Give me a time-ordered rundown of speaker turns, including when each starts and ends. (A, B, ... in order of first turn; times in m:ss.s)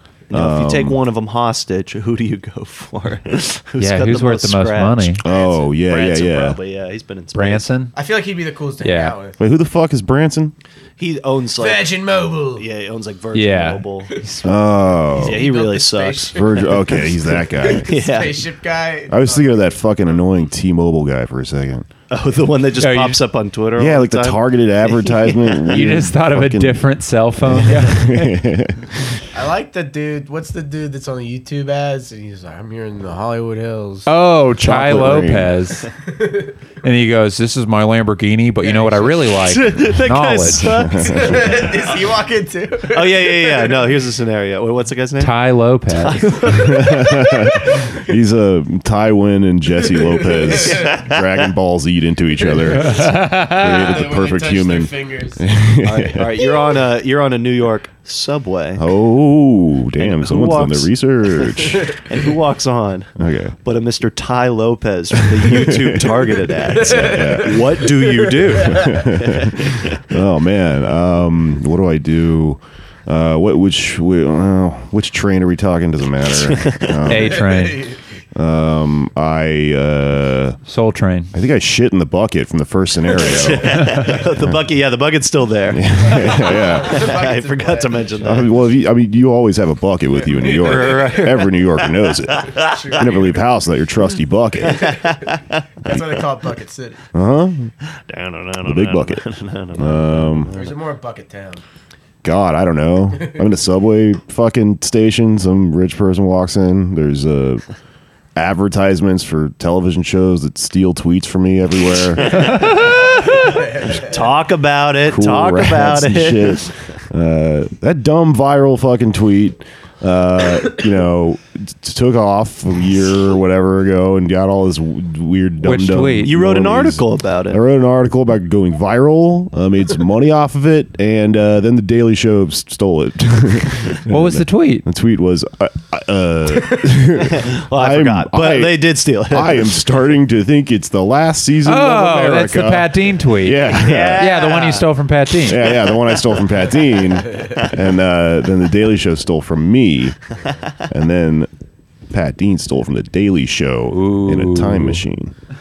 0:00.3-0:07.7 A
0:00.3-0:01.0 B
0:03.8-0:05.2 C
0:05.2-0:06.6 B
0:07.4-0:07.9 C
0:07.9-0:09.4 D
0:08.8-0:09.1 C
0:09.4-0:10.5 B
0:11.0-0:14.2 A
0:11.6-0:12.6 D
0:13.3-0:14.6 C
0:14.4-0:15.4 B
0:15.2-0:20.2 D
0:15.2-0:16.4 A
0:16.4-0:17.9 B
0:17.6-0:18.5 A
0:19.1-0:21.9 B
0:22.1-0:24.4 A
0:22.8-0:23.2 C
0:23.8-0:26.8 B
0:25.0-0:25.3 A
0:25.7-0:28.4 C
0:27.4-0:29.1 B
0:29.3-0:34.1 D
0:34.1-0:35.9 C
0:34.6-0:35.5 B
0:36.1-0:36.6 D
0:36.8-0:40.7 C
0:38.6-0:39.4 D
0:39.4-0:41.7 A
0:40.6-0:41.7 B
0:41.0-0:44.0 D
0:42.9-0:45.3 A
0:45.2-0:46.3 C
0:45.9-0:47.3 A
0:46.5-0:56.4 B
0:50.0-0:51.0 D
0:50.5-0:51.5 A
0:52.4-0:55.4 D
0:52.8-0:53.8 C
0:55.8-0:58.8 A
0:58.8-1:02.0 B
1:00.0-1:10.0 A
1:03.2-1:03.6 B
1:05.4-1:06.2 B
1:06.8-1:07.7 B
1:06.8-1:09.1 D
1:08.6-1:17.5 B
1:16.3-1:17.0 A
1:17.1-1:17.8 C
1:17.3-1:18.0 D
1:18.4-1:20.6 B
1:20.7-1:21.3 C
1:21.3-1:24.6 B
1:23.1-1:28.5 A
1:23.8-1:24.2 C
1:25.7-1:27.1 B
1:26.0-1:28.4 D
1:28.2-1:35.0 B
1:30.2-1:31.2 D
1:30.4-1:31.9 A
1:32.4-1:33.0 A
1:32.6-1:33.5 D
1:34.7-1:35.2 D
1:34.8-1:35.4 A
1:35.8-1:37.0 D
1:37.1-1:37.7 B
1:37.9-1:40.8 A
1:38.6-1:39.2 B
1:39.7-1:40.5 B
1:40.5-1:41.6 D
1:42.2-1:47.6 B
1:48.4-1:52.8 B
1:52.4-1:52.7 A
1:52.9-1:54.0 D
1:53.9-1:56.8 A
1:55.0-2:24.3 B
2:05.6-2:06.3 C
2:06.2-2:07.6 A
2:14.1-2:14.9 C
2:17.3-2:19.8 A
2:21.6-2:25.6 C
2:23.7-2:24.9 A
2:25.5-2:30.2 B
2:25.5-2:26.4 A
2:30.9-2:31.5 B
2:32.1-2:35.3 B
2:33.9-2:35.0 C